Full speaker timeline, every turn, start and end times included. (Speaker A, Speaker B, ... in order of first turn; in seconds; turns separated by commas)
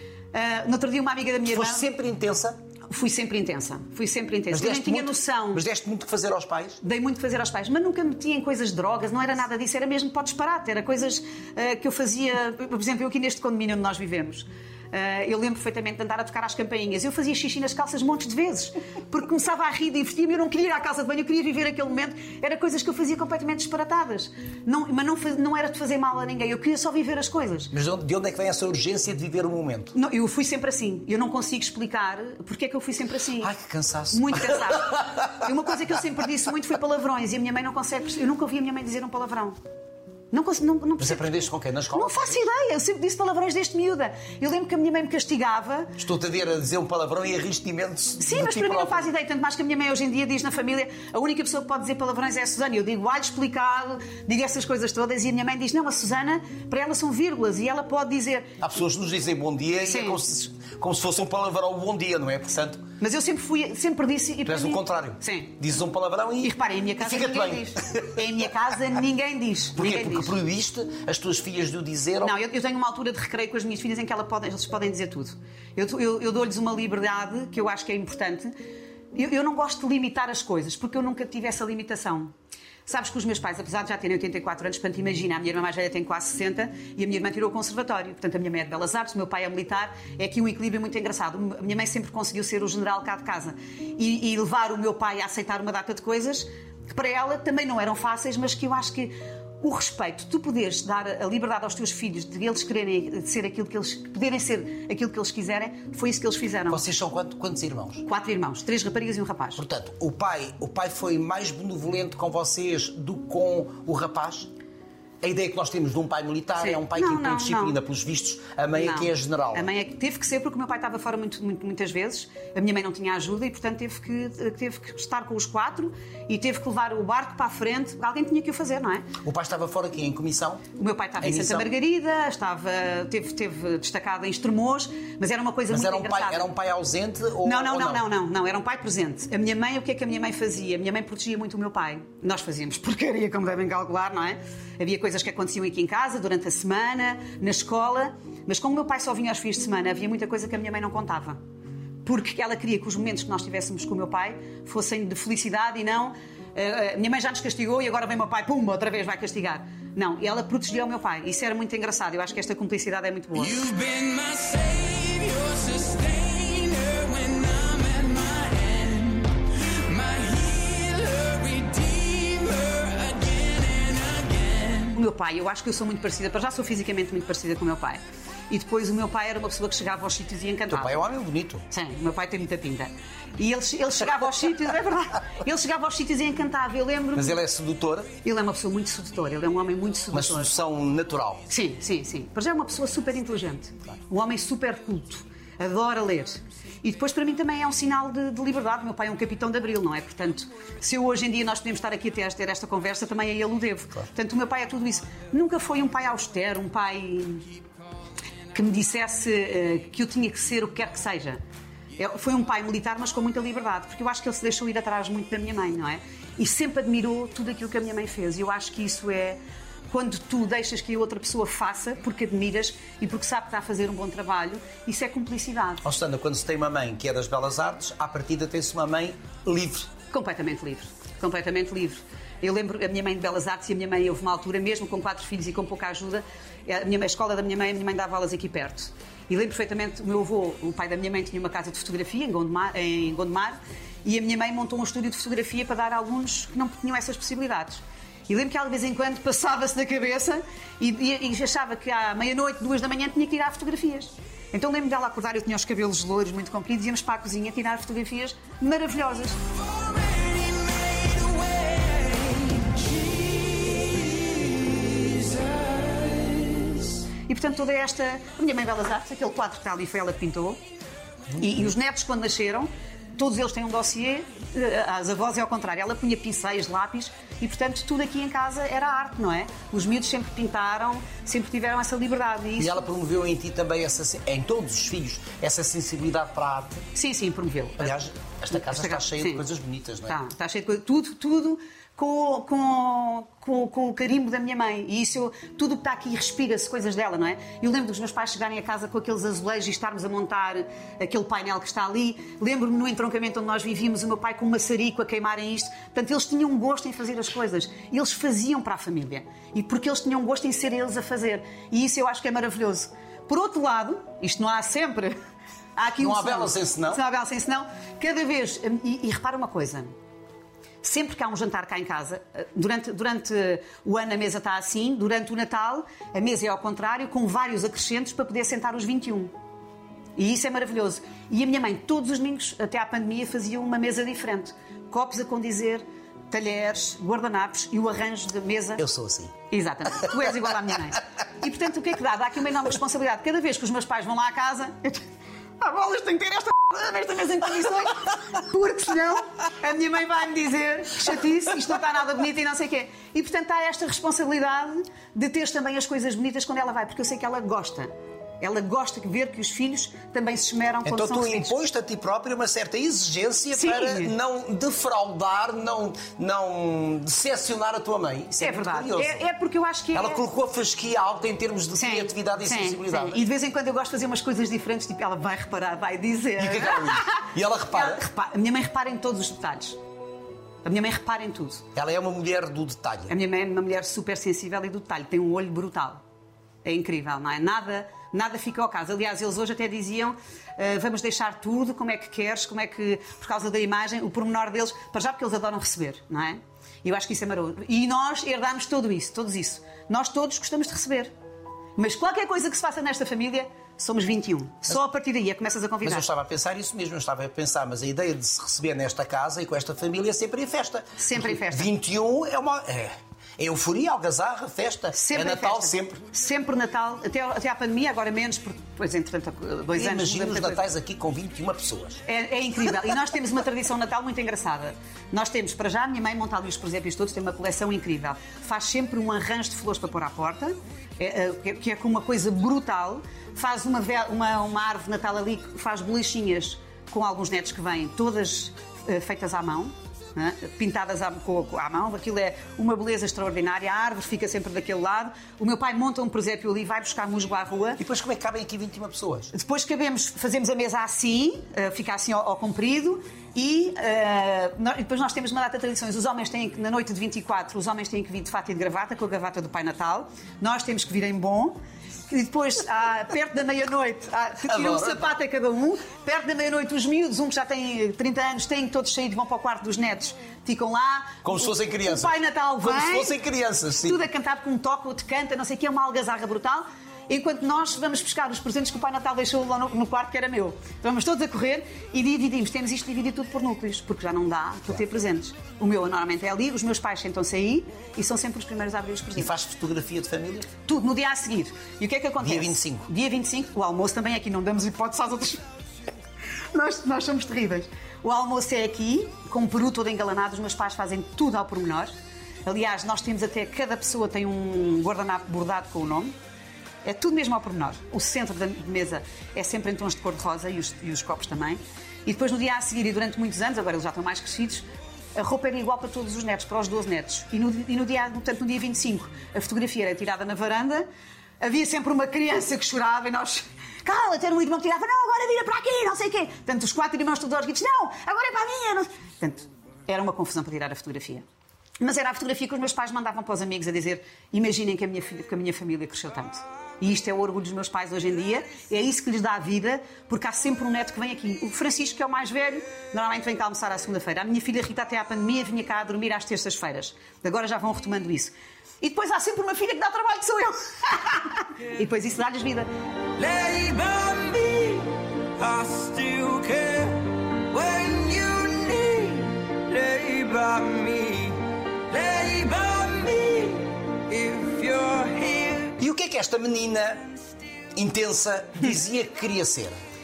Speaker A: 0.3-1.9, Speaker B: 1.5-2.6, Speaker A: 2.9-5.6, Speaker B: 4.5-6.8, Speaker A: 6.8-27.7, Speaker B: 27.7-29.9, Speaker A: 29.9-33.5, Speaker B: 33.4-35.2, Speaker A: 34.1-39.6, Speaker A: 40.3-41.3, Speaker B: 41.0-42.4, Speaker A: 41.9-46.0, Speaker B: 46.0-49.1, Speaker A: 48.2-58.6, Speaker B: 58.6-62.9, Speaker A: 59.9-60.2, Speaker A: 63.0-65.5, Speaker B: 64.5-68.2, Speaker A: 66.4-70.3, Speaker B: 69.8-72.4, Speaker A: 72.2-78.5, Speaker A: 79.1-82.3, Speaker A: 82.9-106.8, Speaker B: 106.7-108.0, Speaker A: 108.0-109.6, Speaker B: 109.6-114.5, Speaker B: 115.2-119.7, Speaker A: 116.6-117.8, Speaker A: 118.8-129.1, Speaker B: 129.2-130.7, Speaker A: 130.8-136.5, Speaker B: 131.2-131.7, Speaker B: 135.7-138.1, Speaker A: 137.4-151.4, Speaker A: 152.1-163.6, Speaker C: 163.4-175.0, Speaker A: 174.9-181.0, Speaker B: 180.7-181.7, Speaker A: 181.7-187.4, Speaker B: 187.2-188.1, Speaker A: 188.2-190.5, Speaker B: 190.1-191.5, Speaker A: 191.5-207.5, Speaker A: 208.5-211.4, Speaker A: 212.0-225.8, Speaker B: 225.8-229.9, Speaker A: 230.1-259.4, Speaker C: 259.8-266.9, Speaker A: 267.3-270.6, Speaker A: 271.4-282.8, Speaker B: 282.6-286.9, Speaker A: 286.9-287.9, Speaker B: 287.8-290.2, Speaker A: 288.5-289.4, Speaker A: 290.1-315.2, Speaker A: 315.8-319.9, Speaker B: 316.0-317.0, Speaker A: 320.8-329.3, Speaker A: 330.2-338.8, Speaker B: 338.8-339.3, Speaker A: 339.5-345.1, Speaker A: 345.6-357.9, Speaker A: 358.4-361.5, Speaker B: 360.9-369.2, Speaker A: 363.5-364.1, Speaker A: 368.4-370.2, Speaker B: 369.9-373.2, Speaker A: 371.8-379.8, Speaker B: 376.4-378.0, Speaker A: 380.6-381.6, Speaker B: 381.8-383.1, Speaker A: 383.1-386.0, Speaker A: 386.6-401.1, Speaker A: 401.8-406.1, Speaker B: 405.8-416.0, Speaker A: 411.0-411.7, Speaker A: 414.9-420.6, Speaker B: 419.7-422.0, Speaker A: 422.1-447.8, Speaker B: 447.8-449.3, Speaker A: 449.3-473.2, Speaker B: 464.5-465.1, Speaker B: 471.2-474.0, Speaker A: 473.8-489.3, Speaker B: 489.1-490.5, Speaker A: 490.7-495.4, Speaker B: 492.2-492.9, Speaker A: 496.5-501.9, Speaker A: 502.5-506.1, Speaker A: 506.8-520.9, Speaker A: 521.4-531.2, Speaker A: 531.8-552.7, Speaker C: 553.2-565.8, Speaker B: 565.8-567.1, Speaker B: 567.8-569.8